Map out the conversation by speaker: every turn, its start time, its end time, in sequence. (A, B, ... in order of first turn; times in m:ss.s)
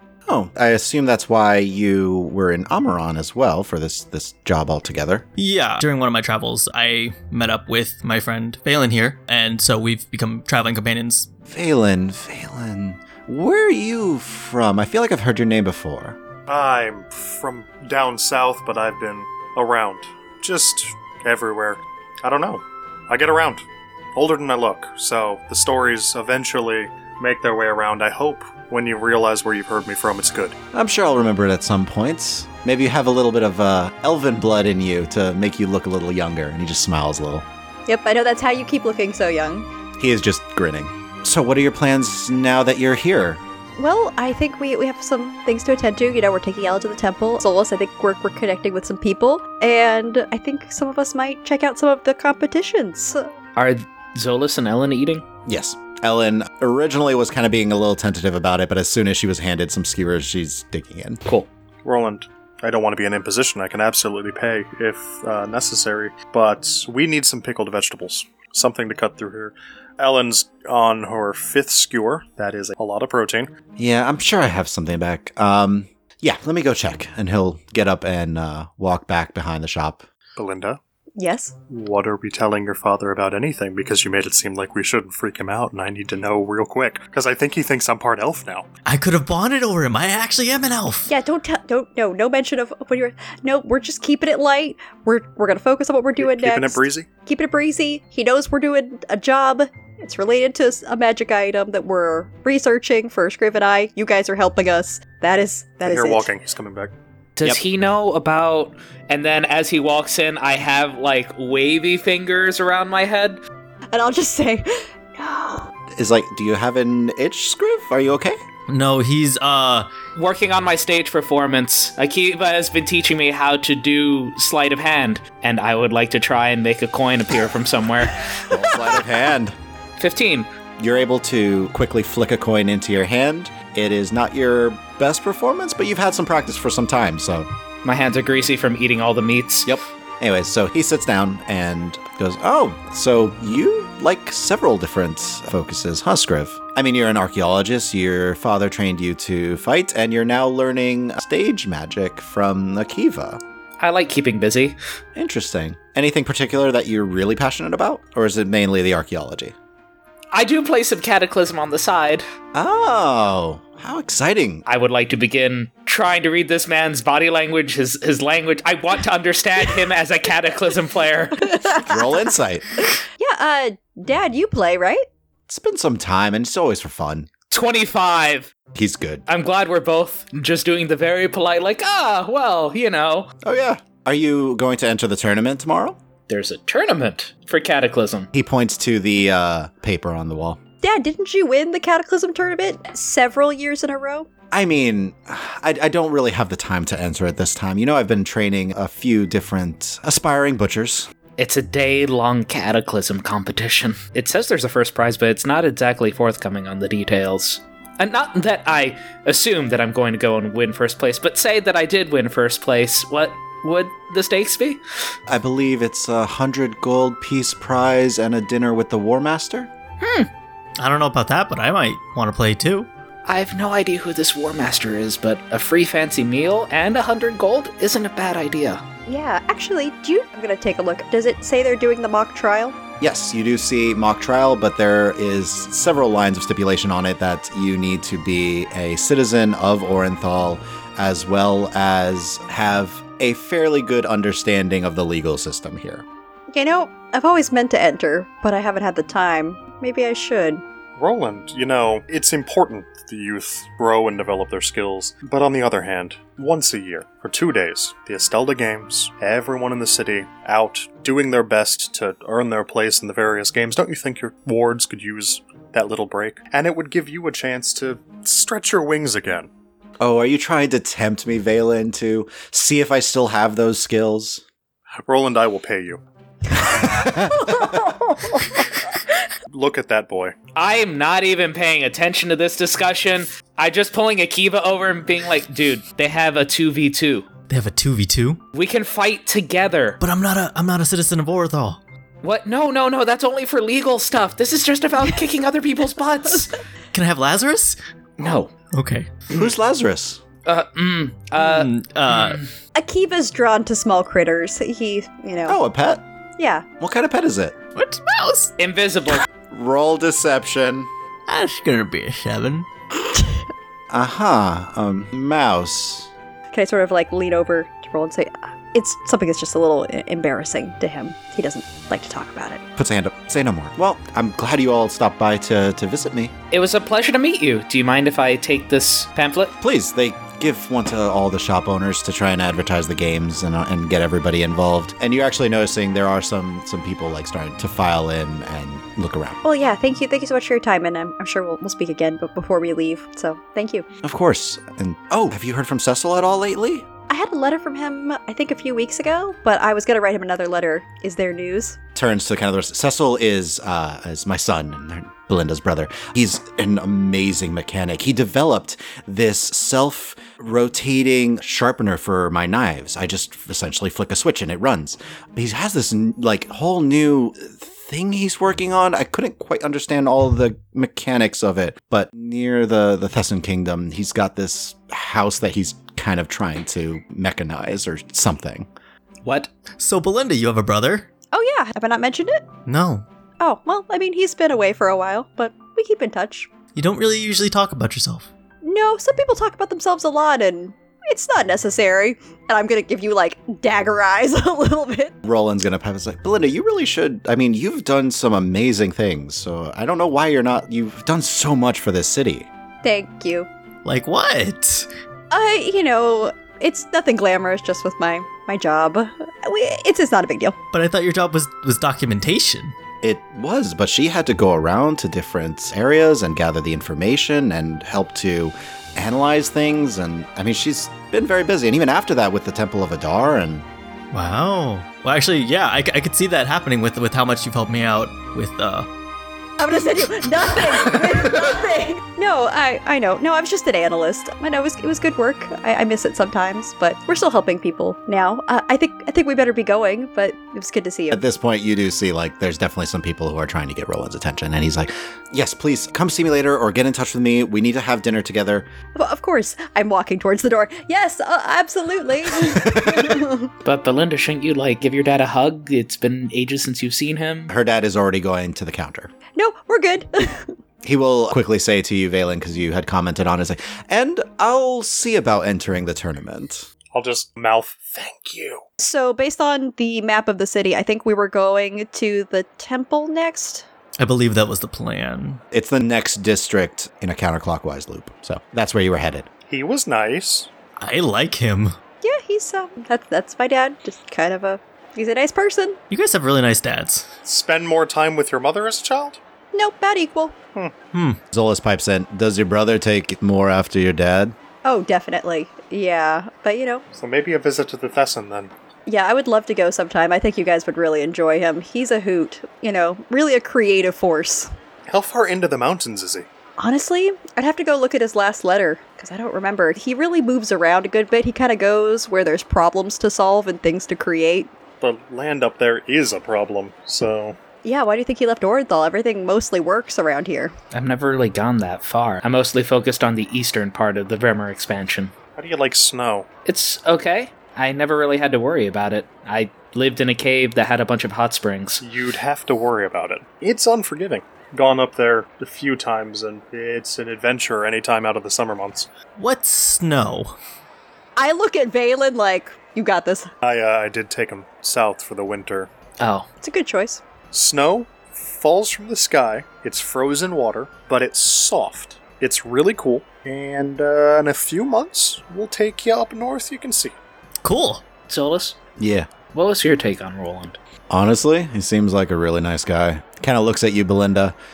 0:00.3-0:05.2 A
0:05.4-0:11.3 B
0:11.5-0:16.2 A
0:16.5-0:30.6 C
0:30.7-0:37.4 A
0:37.9-0:39.7 D
0:40.0-0:43.4 A
0:43.8-0:53.3 D
0:53.6-0:55.2 E
0:55.5-1:01.2 A
1:01.8-1:13.5 C
1:13.8-1:20.0 A
1:20.4-1:20.8 C
1:21.2-1:21.5 D
1:21.7-1:28.7 C
1:28.9-1:31.1 B
1:31.1-1:46.3 D
1:36.2-1:37.1 C
1:45.8-1:46.9 C
1:47.4-1:53.4 E
1:53.9-1:55.7 D
1:55.9-1:58.4 A
1:58.7-1:59.9 B
2:00.2-2:08.3 E
2:08.4-2:09.6 A
2:10.0-2:10.5 E
2:10.8-2:17.5 A
2:17.8-2:19.7 E
2:19.7-2:33.4 A
2:33.8-2:34.8 E
2:35.2-2:39.6 A
2:40.3-2:42.2 E
2:42.5-2:44.6 A
2:44.7-2:51.6 E
2:51.5-2:52.0 D
2:51.8-2:52.7 A
2:53.2-2:55.1 D
2:55.5-2:57.3 A
2:57.5-2:58.5 E
2:58.7-2:59.2 A
2:59.3-3:03.3 E
3:03.4-3:06.0 A
3:06.3-3:08.3 E
3:08.3-3:10.6 A
3:10.8-3:14.3 D
3:14.5-3:21.1 A
3:21.4-3:34.8 E
3:35.3-3:39.7 A
3:40.0-3:40.3 E
3:40.8-3:42.9 B
3:43.3-3:48.8 E
3:49.1-3:52.8 D
3:53.0-4:06.0 A
4:06.5-4:10.6 D
4:11.0-4:29.5 C
4:30.0-4:34.4 A
4:35.1-4:36.0 C
4:36.8-4:37.7 A
4:37.4-4:38.4 D
4:39.5-4:40.4 C
4:40.6-4:47.3 E
4:47.5-4:48.4 B
4:48.5-4:50.0 E
4:50.0-4:51.8 B
4:52.2-4:56.6 E
4:56.9-4:57.8 B
4:58.2-4:58.5 E
4:58.7-4:59.1 B
4:59.3-5:00.2 A
5:00.4-5:02.5 E
5:01.4-5:02.4 B
5:02.8-5:05.6 D
5:05.5-5:06.0 A
5:06.4-5:06.6 D
5:06.8-5:07.6 A
5:07.8-5:08.5 B
5:08.6-5:09.2 E
5:09.5-5:10.9 A
5:11.3-5:12.7 B
5:13.9-5:16.1 A
5:16.5-5:22.6 D
5:22.8-5:26.3 A
5:26.5-5:29.6 E
5:29.6-5:39.4 A
5:39.4-5:43.9 D
5:44.0-5:46.9 A
5:47.1-5:51.8 D
5:52.0-6:18.7 A
6:19.2-6:19.5 E
6:19.8-6:21.1 B
6:21.3-6:22.5 D
6:22.7-6:23.0 B
6:23.4-6:26.5 D
6:26.8-6:28.3 B
6:28.6-6:35.2 D
6:35.2-6:42.5 A
6:42.8-6:43.5 D
6:43.8-6:44.9 B
6:45.3-6:50.6 D
6:50.7-6:52.8 B
6:53.0-7:03.7 A
7:04.1-7:08.9 B
7:09.6-7:21.2 D
7:21.1-7:28.7 A
7:29.0-7:33.5 D
7:32.5-7:33.2 A
7:33.6-7:37.5 E
7:37.5-7:39.1 A
7:39.4-7:40.5 D
7:40.8-7:46.7 A
7:46.9-7:48.6 C
7:48.8-7:53.6 D
7:54.0-7:55.4 B
7:55.5-7:59.3 A
7:59.5-8:00.5 C
8:00.8-8:01.8 B
8:02.0-8:05.8 D
8:05.9-8:07.1 B
8:07.2-8:09.2 C
8:09.5-8:10.4 D
8:10.9-8:11.2 B
8:11.3-8:14.4 A
8:14.6-8:16.8 D
8:16.9-8:18.5 C
8:18.9-8:24.5 D
8:24.9-8:26.3 C
8:26.6-8:34.5 D
8:34.8-8:37.4 C
8:37.6-8:40.6 D
8:40.7-8:45.1 E
8:45.4-8:46.3 C
8:46.5-8:51.8 E
8:51.8-8:58.9 C
8:59.2-9:00.4 B
9:01.2-9:03.3 D
9:03.4-9:05.7 C
9:06.0-9:06.3 E
9:06.4-9:07.0 D
9:07.3-9:17.0 C
9:17.4-9:17.8 B
9:18.1-9:18.6 E
9:18.8-9:19.1 A
9:19.3-9:20.6 E
9:20.9-9:24.4 A